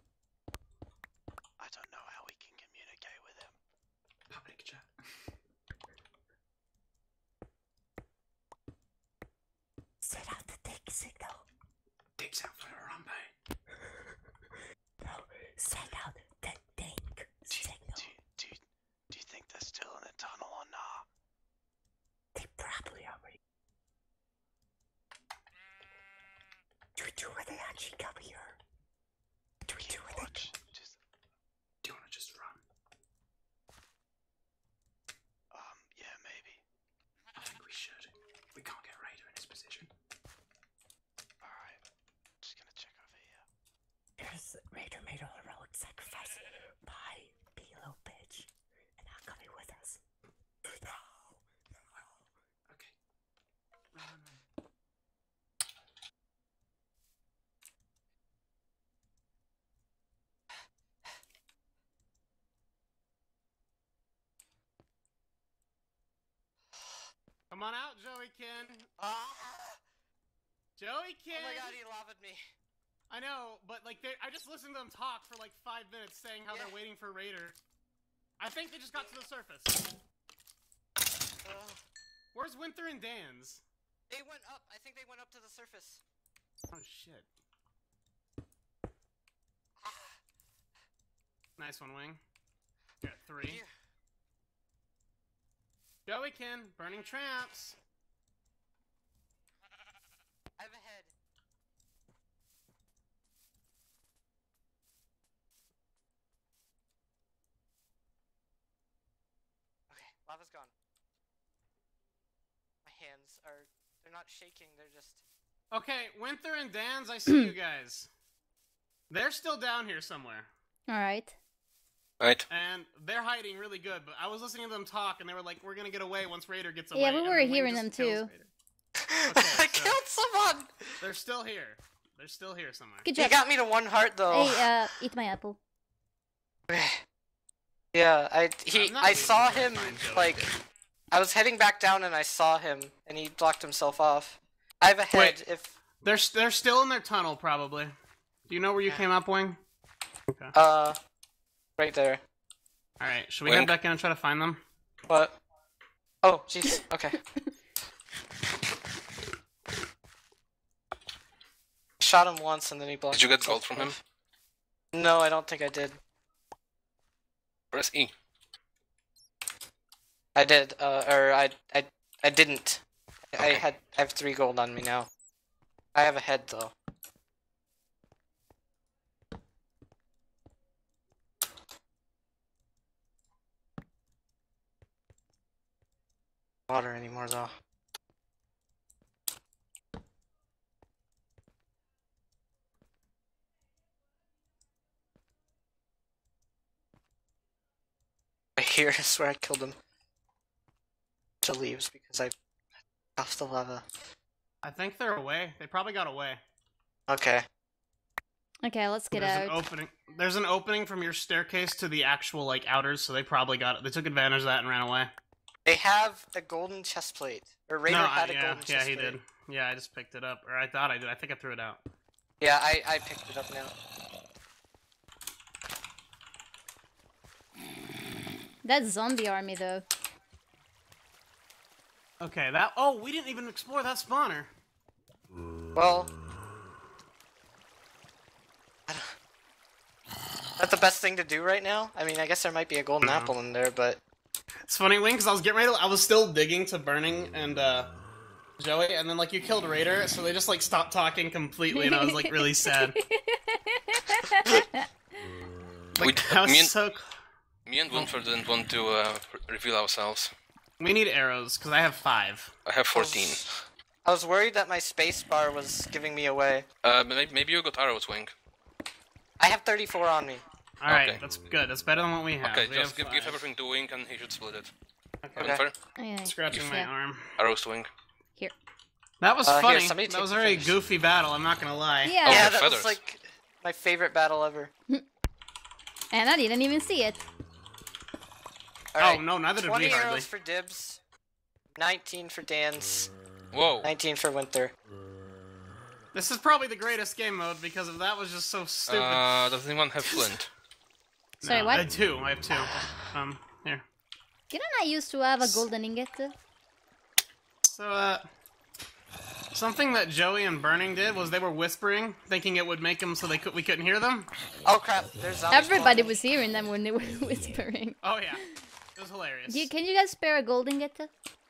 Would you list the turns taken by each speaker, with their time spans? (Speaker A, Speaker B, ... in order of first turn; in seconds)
Speaker A: 1.6-3.6, 17.5-21.1, 29.7-31.0, 35.5-36.6, 41.4-41.8, 42.4-43.5
Speaker B: 4.3-5.3, 12.2-13.3, 31.8-32.6, 37.4-39.9, 52.7-53.0, 53.9-54.4
Speaker C: 10.0-11.4, 15.0-18.1, 22.4-23.4, 27.0-28.6, 29.7-30.5, 44.2-50.0, 50.8-51.4
Speaker D: 67.5-68.9, 70.8-71.8, 73.1-77.6, 78.4-79.8, 82.3-83.6, 86.7-87.3, 91.6-92.2, 93.0-93.6, 96.1-97.8, 115.7-118.1, 119.1-120.5, 122.5-128.5, 129.3-130.0, 131.0-133.1, 138.7-140.6, 145.1-145.4, 146.0-147.9, 148.5-149.6, 153.0-154.6, 204.6-206.4, 209.1-215.1, 217.9-221.8, 232.2-234.5, 243.0-243.3, 244.7-247.9, 248.6-253.0, 256.0-257.2, 260.8-262.5, 270.8-273.4, 275.2-275.5, 276.2-277.4, 279.2-282.2, 289.0-290.3, 296.1-299.4, 300.0-300.3, 301.4-303.8, 305.4-305.6, 307.6-308.3, 309.5-314.3, 318.0-318.4, 319.0-319.7
Speaker E: 69.0-69.8, 71.3-72.4, 76.5-76.8, 81.4-81.8, 84.1-86.0, 89.8-90.2, 93.4-93.7, 100.6-101.1, 109.9-110.7, 112.8-115.2, 129.1-130.9, 133.2-134.7, 136.7-137.0, 137.9-140.5, 141.1-145.8, 150.5-151.0, 151.8-152.2, 155.1-155.4, 156.2-157.2, 162.0-164.0, 164.9-166.0, 170.3-175.1, 175.9-176.7, 186.7-187.5, 198.6-199.8, 201.4-202.3, 203.2-203.9, 207.1-207.4, 215.7-219.2, 222.4-223.7, 235.8-236.1, 240.6-244.0, 262.9-263.5, 264.1-266.7, 269.4-270.4, 275.4-275.6, 279.4-280.8, 282.2-284.7, 288.9-291.0, 291.8-293.1, 293.8-294.7, 314.6-316.2
Speaker F: 120.9-121.3, 126.9-128.3, 133.0-133.4, 134.3-135.6, 208.6-209.6, 228.6-229.8, 251.7-254.9, 276.0-276.9, 282.0-282.5, 286.1-287.2, 301.4-301.9, 304.5-306.3, 315.5-318.0, 319.5-321.1
Speaker G: 122.2-122.5, 153.4-153.7, 163.1-164.0, 167.7-168.1, 256.0-256.7, 257.7-260.3, 262.7-263.5, 266.8-268.3, 270.9-271.2, 272.4-274.7, 275.4-275.8, 276.5-276.7, 277.4-277.9, 282.2-283.0, 293.5-293.9, 298.9-300.5